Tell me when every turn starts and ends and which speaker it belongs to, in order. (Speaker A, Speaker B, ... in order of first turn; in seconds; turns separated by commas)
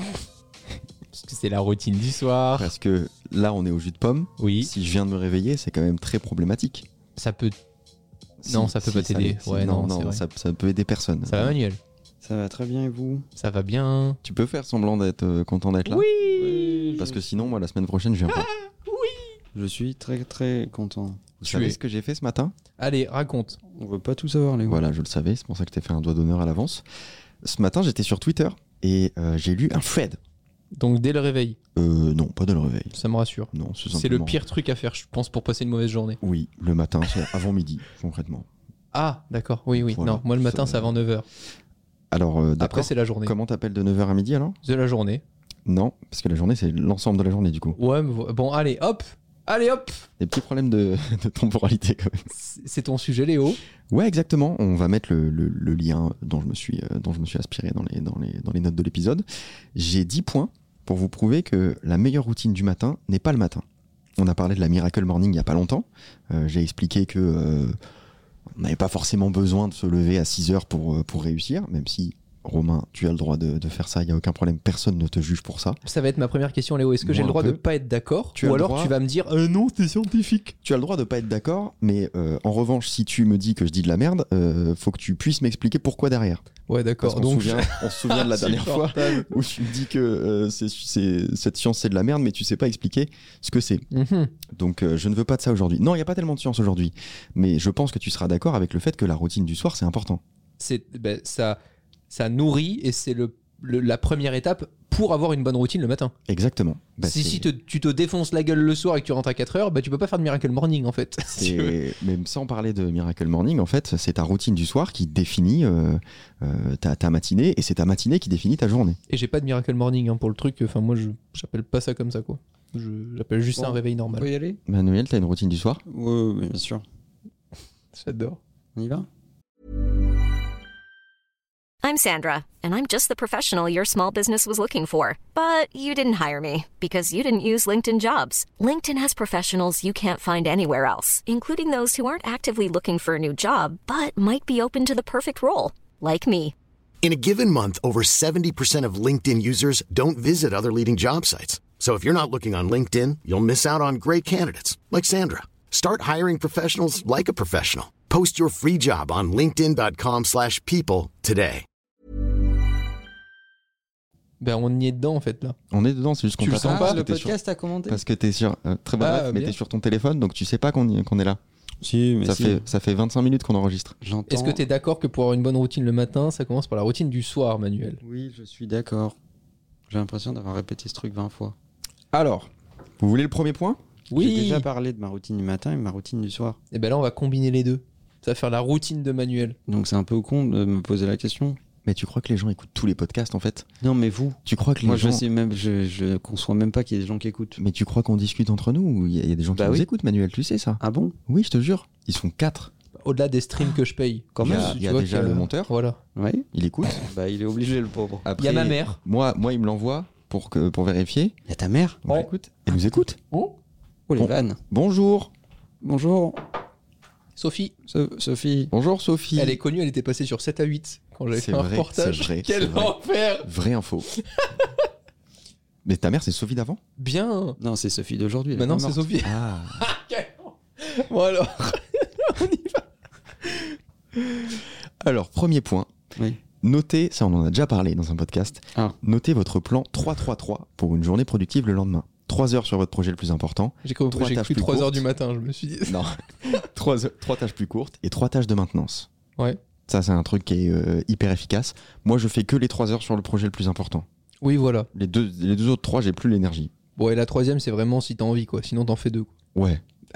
Speaker A: 1.1-2.7, Speaker B: 2.5-6.9, Speaker A: 4.4-4.7, Speaker A: 7.2-7.5, Speaker B: 8.4-11.5, Speaker A: 8.4-10.2, Speaker A: 11.3-11.8, Speaker C: 12.2-13.2, Speaker A: 13.3-14.2, Speaker B: 14.2-16.1, Speaker A: 15.8-17.0, Speaker C: 16.3-17.3, Speaker B: 17.0-18.5, Speaker A: 18.3-19.3, Speaker C: 19.5-21.3, Speaker B: 21.4-22.5, Speaker A: 21.4-21.8, Speaker A: 22.8-23.6, Speaker C: 23.7-24.8, Speaker B: 24.6-26.8, Speaker B: 27.4-30.2, Speaker A: 30.8-31.6, Speaker B: 31.7-33.0, Speaker A: 32.9-36.2, Speaker B: 33.5-34.4, Speaker B: 36.2-38.5, Speaker A: 38.9-41.3, Speaker B: 39.7-41.0, Speaker B: 42.1-44.6, Speaker A: 42.6-43.3, Speaker A: 44.6-45.2, Speaker B: 45.6-47.8, Speaker A: 47.7-50.1, Speaker B: 50.2-52.3, Speaker A: 52.3-53.6, Speaker B: 53.9-63.6, Speaker B: 64.2-67.8, Speaker B: 68.5-75.8, Speaker A: 75.8-80.5, Speaker B: 77.0-77.6, Speaker B: 78.3-78.9, Speaker B: 80.6-86.4, Speaker A: 86.7-89.4, Speaker B: 87.0-93.8, Speaker A: 93.9-94.3, Speaker B: 94.5-100.2, Speaker A: 100.6-101.6, Speaker A: 102.1-106.1, Speaker B: 106.3-107.5, Speaker A: 107.0-111.8, Speaker B: 111.3-119.0, Speaker A: 119.1-124.3, Speaker C: 123.5-124.6, Speaker B: 124.7-125.8, Speaker C: 125.9-126.8, Speaker A: 127.9-128.4, Speaker C: 128.8-129.1, Speaker D: 131.8-146.5, Speaker E: 147.0-161.6, Speaker A: 164.4-165.6, Speaker B: 165.7-167.3, Speaker A: 166.4-167.0, Speaker C: 166.5-168.0, Speaker B: 167.9-171.4, Speaker A: 169.0-169.6, Speaker C: 171.8-172.7, Speaker B: 172.2-173.9, Speaker C: 174.0-174.6, Speaker A: 174.3-178.0, Speaker C: 178.0-179.2, Speaker C: 179.9-181.5, Speaker B: 182.1-183.8, Speaker A: 184.1-184.7, Speaker C: 184.2-186.6, Speaker A: 186.7-189.6, Speaker C: 189.7-191.6, Speaker B: 191.8-193.7, Speaker C: 193.8-197.6, Speaker B: 194.4-195.2, Speaker B: 197.6-202.7, Speaker C: 199.5-199.9, Speaker C: 200.8-201.1, Speaker A: 203.0-206.0, Speaker C: 204.3-204.8, Speaker B: 204.4-205.7, Speaker C: 206.2-208.3, Speaker B: 206.5-207.0, Speaker B: 208.2-211.3, Speaker A: 208.4-209.0, Speaker C: 211.5-212.0, Speaker B: 212.0-213.2, Speaker C: 214.1-214.6, Speaker B: 214.2-215.3, Speaker C: 215.8-216.4, Speaker A: 217.4-217.7, Speaker C: 217.9-218.7, Speaker B: 218.7-219.6, Speaker A: 219.3-223.5, Speaker B: 221.3-224.1, Speaker A: 224.1-224.7, Speaker B: 225.8-226.8, Speaker A: 227.0-227.6, Speaker C: 227.6-229.1, Speaker A: 228.5-232.8, Speaker B: 229.2-229.8, Speaker A: 233.4-234.5, Speaker B: 235.0-235.9, Speaker B: 236.6-245.0, Speaker A: 243.8-246.0, Speaker B: 245.8-249.1, Speaker B: 249.9-254.1, Speaker A: 254.4-254.9, Speaker B: 254.9-256.7, Speaker A: 257.0-259.3, Speaker B: 259.6-259.8